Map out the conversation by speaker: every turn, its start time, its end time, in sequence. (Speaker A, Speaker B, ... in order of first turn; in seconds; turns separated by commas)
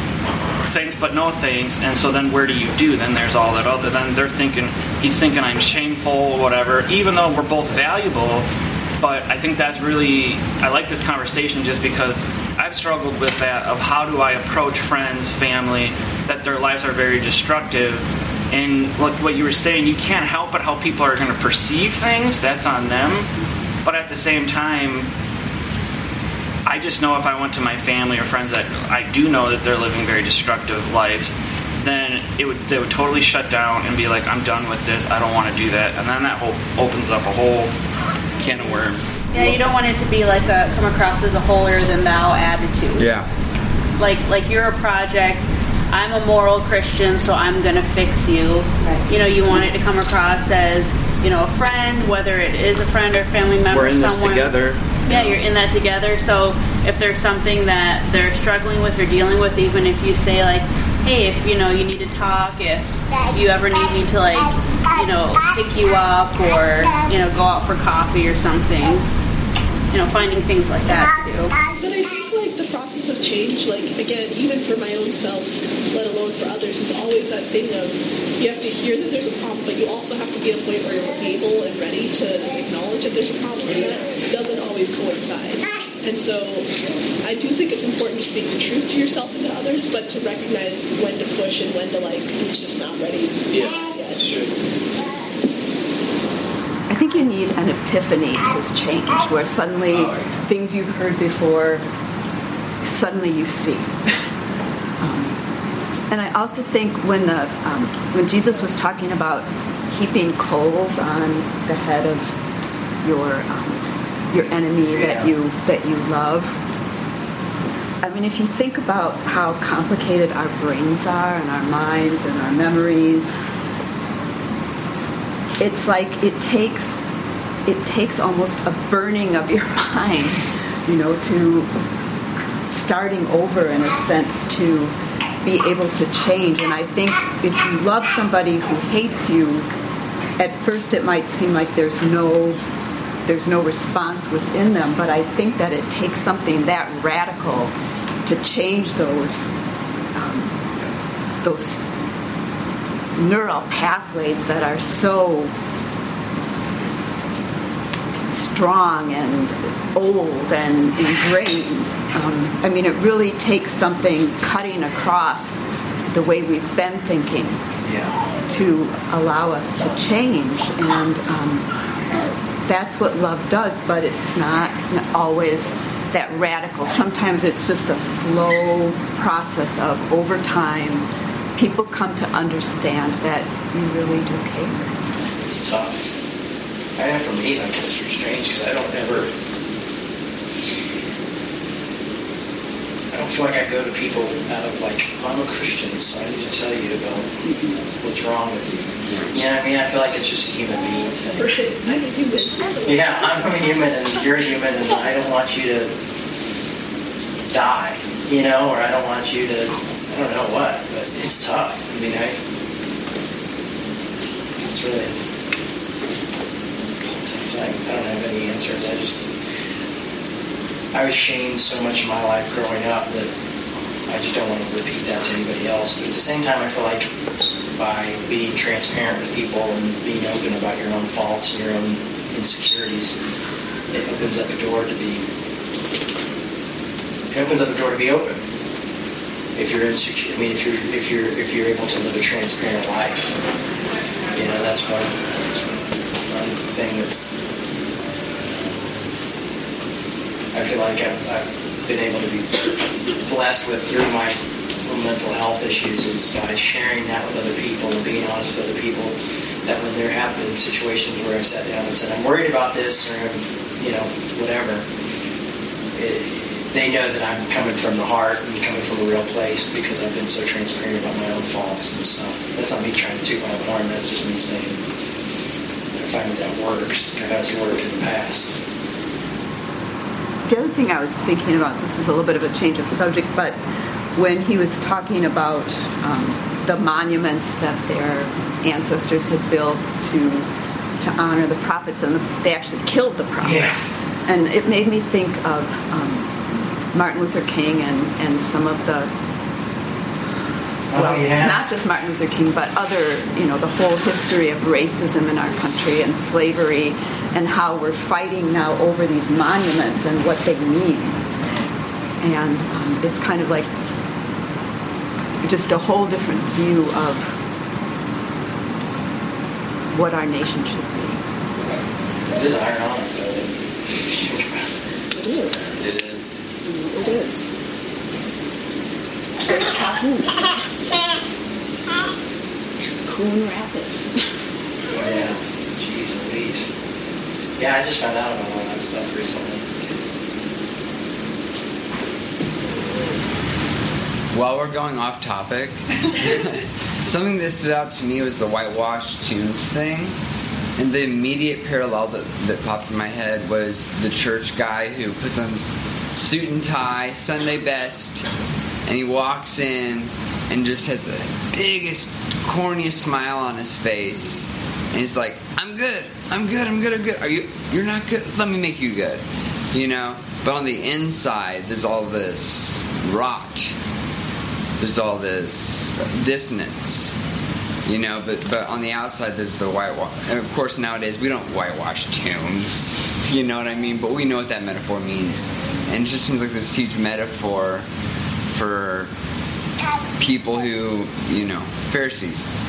Speaker A: 0.6-8.5, Speaker A: 9.0-23.3, Speaker A: 23.8-25.1, Speaker A: 26.7-37.7, Speaker A: 38.4-39.3, Speaker B: 39.3-43.1, Speaker C: 43.0-43.3, Speaker B: 44.0-54.5, Speaker A: 53.7-55.4, Speaker B: 55.0-69.0, Speaker B: 69.9-71.5, Speaker D: 71.7-86.7, Speaker D: 87.2-94.3, Speaker A: 93.5-94.5, Speaker E: 96.9-101.8, Speaker C: 99.9-100.3, Speaker E: 102.8-104.1, Speaker E: 105.0-105.4, Speaker E: 106.1-112.4, Speaker E: 113.0-116.6, Speaker F: 114.9-115.3, Speaker E: 118.0-123.3, Speaker E: 125.6-127.0, Speaker E: 127.7-131.7, Speaker E: 132.7-139.7, Speaker E: 140.4-142.6, Speaker E: 143.3-147.7, Speaker E: 148.2-149.5, Speaker E: 150.1-150.6, Speaker E: 151.4-151.8, Speaker E: 153.2-155.5, Speaker E: 158.3-165.6, Speaker E: 166.1-167.6, Speaker F: 167.8-168.2, Speaker E: 168.5-171.7, Speaker E: 172.7-185.1, Speaker F: 185.3-186.1, Speaker F: 187.0-189.3, Speaker F: 193.1-197.3, Speaker E: 197.5-197.8, Speaker F: 198.0-201.5, Speaker C: 199.1-199.3, Speaker D: 201.3-204.4, Speaker F: 202.8-205.9, Speaker F: 207.5-212.4, Speaker F: 214.6-215.2, Speaker F: 217.0-219.3, Speaker F: 220.9-223.3, Speaker F: 224.1-227.1, Speaker F: 227.8-233.2, Speaker F: 233.9-235.3, Speaker F: 237.3-238.4, Speaker F: 239.6-243.4, Speaker F: 244.3-245.2, Speaker F: 246.3-247.3, Speaker F: 250.5-264.9, Speaker F: 265.9-274.8, Speaker F: 275.9-278.6, Speaker E: 280.5-283.6, Speaker E: 284.1-290.5, Speaker E: 291.0-296.4, Speaker F: 293.4-293.8, Speaker E: 296.9-299.1, Speaker F: 300.9-301.7, Speaker E: 300.9-311.2, Speaker E: 312.2-313.7, Speaker E: 315.4-317.4, Speaker E: 319.9-321.2, Speaker F: 322.3-324.7, Speaker E: 325.1-325.8, Speaker C: 325.8-326.4, Speaker E: 326.6-327.5, Speaker E: 329.4-331.1, Speaker E: 333.0-334.2, Speaker F: 334.9-336.7, Speaker F: 337.6-340.0, Speaker C: 344.3-350.2, Speaker C: 350.8-358.3, Speaker C: 358.9-373.8, Speaker C: 374.8-377.2, Speaker C: 377.9-387.9, Speaker C: 388.5-389.1, Speaker C: 390.2-392.5